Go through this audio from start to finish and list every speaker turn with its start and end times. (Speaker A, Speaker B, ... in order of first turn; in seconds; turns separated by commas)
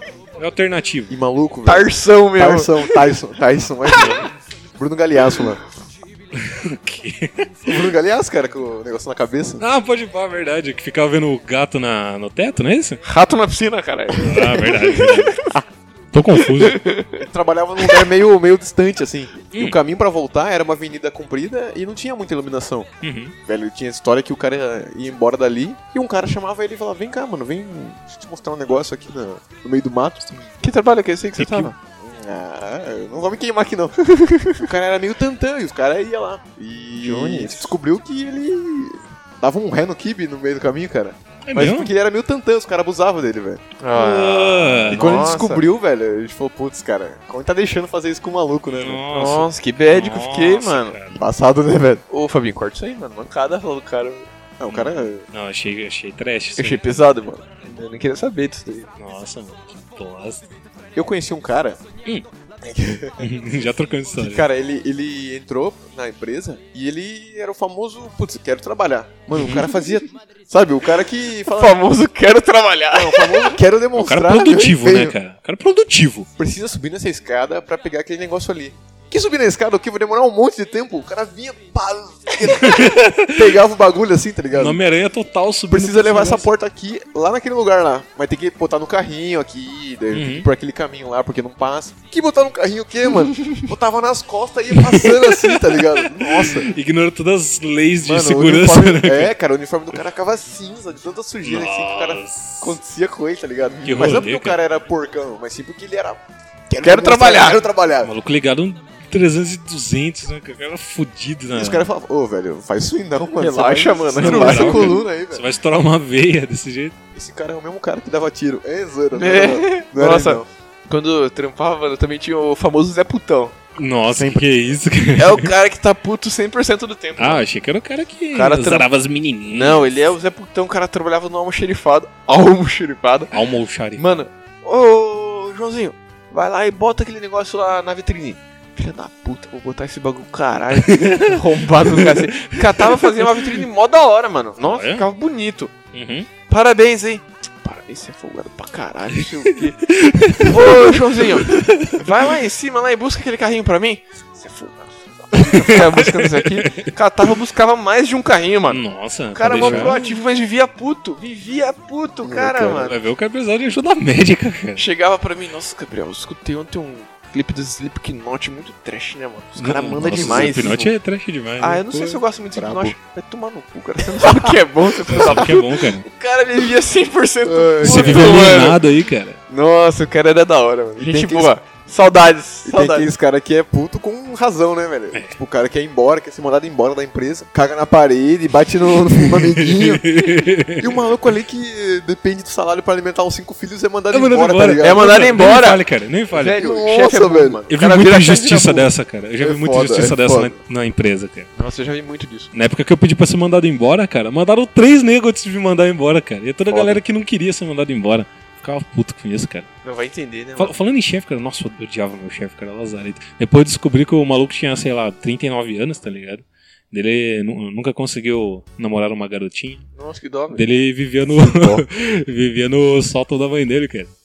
Speaker A: 0.4-1.1, Speaker B: 1.1-5.6, Speaker C: 1.6-3.2, Speaker A: 6.4-7.5, Speaker B: 7.6-9.6, Speaker A: 9.6-13.0, Speaker C: 13.0-15.4, Speaker A: 14.2-15.4, Speaker A: 16.1-16.8, Speaker C: 16.5-17.2, Speaker B: 17.2-22.9, Speaker A: 23.0-23.3, Speaker B: 23.4-30.3, Speaker C: 30.6-31.7, Speaker A: 31.4-31.7, Speaker B: 31.8-34.0, Speaker C: 34.0-34.7, Speaker B: 34.6-43.6, Speaker C: 37.0-37.7, Speaker A: 41.4-41.9, Speaker C: 43.8-45.6, Speaker A: 43.9-45.2, Speaker B: 44.9-49.0, Speaker A: 48.7-51.2, Speaker C: 49.1-51.0, Speaker B: 51.1-52.0, Speaker C: 52.1-54.3, Speaker B: 54.6-55.2, Speaker A: 54.7-56.9, Speaker C: 56.6-58.9, Speaker A: 59.0-60.5, Speaker B: 60.9-61.8, Speaker B: 62.6-63.3, Speaker A: 63.2-64.5, Speaker B: 64.2-71.8, Speaker C: 71.5-73.6, Speaker B: 72.9-75.1, Speaker A: 74.0-76.3, Speaker B: 76.4-84.8, Speaker A: 82.6-83.3, Speaker A: 84.5-86.5, Speaker B: 85.7-96.7, Speaker A: 90.1-90.5, Speaker A: 94.7-99.3, Speaker B: 98.0-108.1, Speaker A: 101.4-102.8, Speaker A: 103.8-104.6, Speaker C: 106.8-107.6, Speaker A: 108.0-111.8, Speaker B: 111.5-115.5, Speaker C: 113.4-115.0, Speaker A: 114.2-116.9, Speaker B: 117.1-120.5, Speaker C: 119.1-123.5, Speaker A: 123.8-125.5, Speaker B: 124.1-124.5, Speaker C: 125.2-127.4, Speaker A: 127.2-129.9, Speaker C: 128.3-128.9, Speaker C: 129.5-133.3, Speaker A: 133.3-134.1, Speaker C: 134.0-145.7, Speaker A: 140.8-143.6, Speaker A: 144.6-145.1, Speaker A: 145.9-146.3, Speaker C: 146.5-158.8, Speaker A: 149.5-152.0, Speaker A: 155.4-156.9, Speaker A: 158.7-160.0, Speaker C: 159.3-163.0, Speaker B: 159.5-160.0, Speaker B: 162.2-162.9, Speaker A: 162.8-164.8, Speaker C: 164.8-170.9, Speaker A: 169.6-172.2, Speaker B: 170.0-170.8, Speaker C: 171.6-178.8, Speaker B: 172.5-172.9, Speaker B: 174.2-174.5, Speaker A: 175.1-176.0, Speaker B: 175.2-175.5, Speaker B: 177.4-178.5, Speaker A: 177.8-179.4, Speaker C: 179.5-183.1, Speaker B: 181.0-181.5, Speaker B: 182.6-195.4, Speaker A: 189.2-191.0, Speaker A: 194.1-196.6, Speaker C: 194.8-198.9, Speaker B: 196.6-197.6, Speaker A: 197.7-201.5, Speaker B: 199.4-200.6, Speaker C: 201.6-202.5, Speaker A: 202.5-209.7, Speaker C: 209.8-210.7, Speaker A: 210.6-219.8, Speaker C: 219.9-220.6, Speaker A: 220.5-224.1, Speaker B: 221.5-221.8